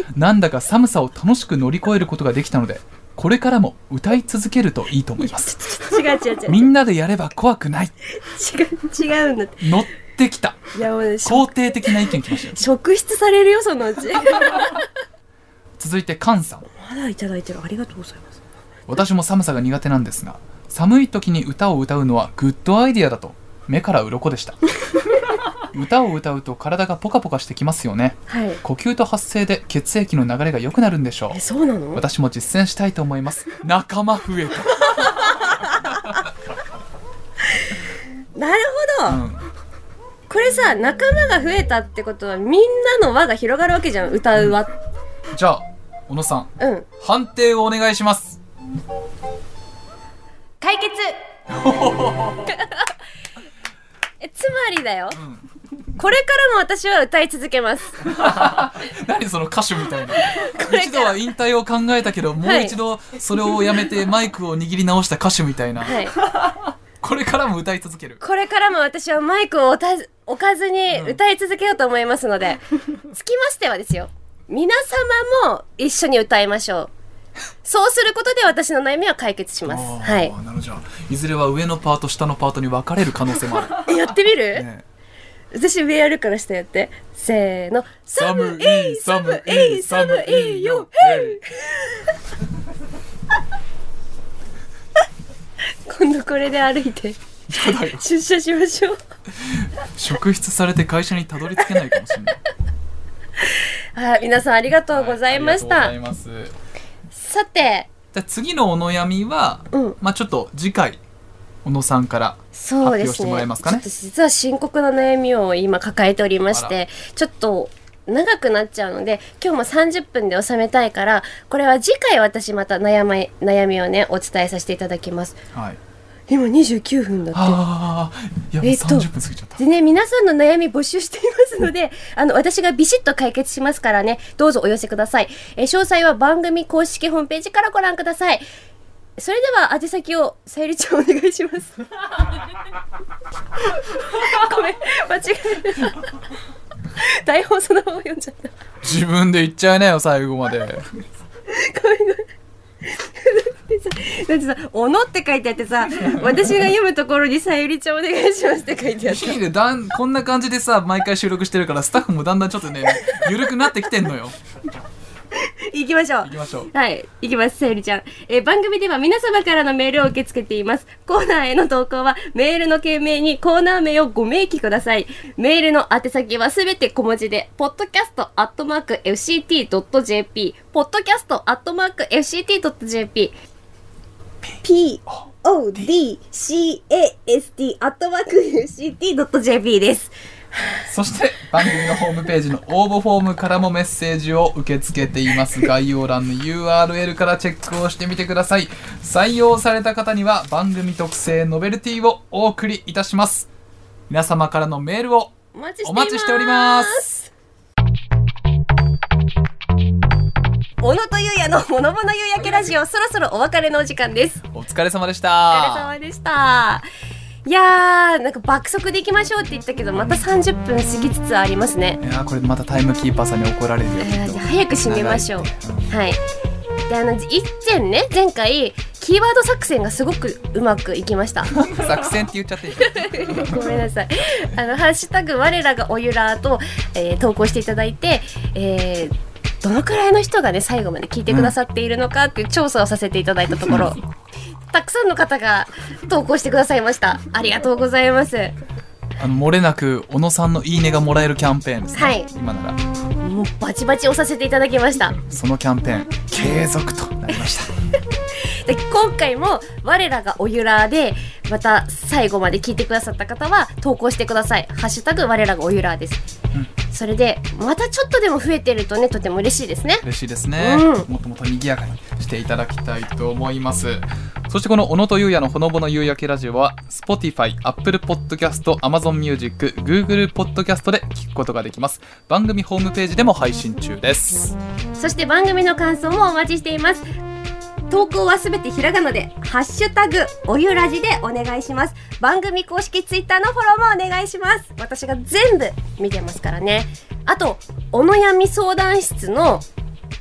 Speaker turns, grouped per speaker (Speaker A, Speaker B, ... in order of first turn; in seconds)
Speaker A: 0.1-5.5, 6.5-7.9, 9.6-12.6, 15.8-16.7, 18.9-24.6, 25.6-31.4, 31.9-36.2, 39.1-39.5, 45.3-48.4, 51.5-52.5, 55.1-55.5, 58.1-68.2, 70.9-71.2, 79.7-83.9, 84.5-84.8, 88.2-91.4, 97.5-98.0, 99.3-102.4, 104.9-106.5, 108.1-111.0, 111.6-113.8, 116.5-116.7, 125.5-125.8, 127.3-129.6, 148.8-150.8, 159.0-164.3, 166.2-166.7, 190.8-203.5, 204.1-207.1, 214.5-215.9, 222.0-225.9, 231.5-233.6, 241.3-241.5, 249.2-252.8, 255.3-257.7, 270.0-284.6
Speaker B: 5.2-6.7, 8.2-9.7, 10.7-14.8, 16.7-18.4, 28.3-28.6, 31.3-32.0, 35.1-36.2, 38.3-39.2, 40.3-44.7, 46.6-46.9, 50.6-51.2, 52.5-52.9, 54.2-55.2, 56.0-58.1, 60.2-61.2, 62.4-62.7, 65.8-66.2, 68.2-76.9, 77.6-80.3, 83.8-84.7, 85.5-92.1, 95.8-99.0, 103.5-105.9, 107.1-107.9, 112.5-125.4, 126.3-127.6, 128.6-138.4, 139.2-141.8, 144.0-146.1, 147.0-148.5, 151.5-152.2, 152.8-159.4, 165.3-183.3, 184.6-190.1, 205.5-207.3, 210.8-214.4, 215.5-216.8, 217.4-222.0, 224.0-226.2, 226.9-231.6, 232.8-244.0, 244.7-248.5, 251.9-252.3, 253.2-255.2, 258.4-266.2, 266.9-270.0, 270.6-271.1, 285.0-287.0, 287.9-299.6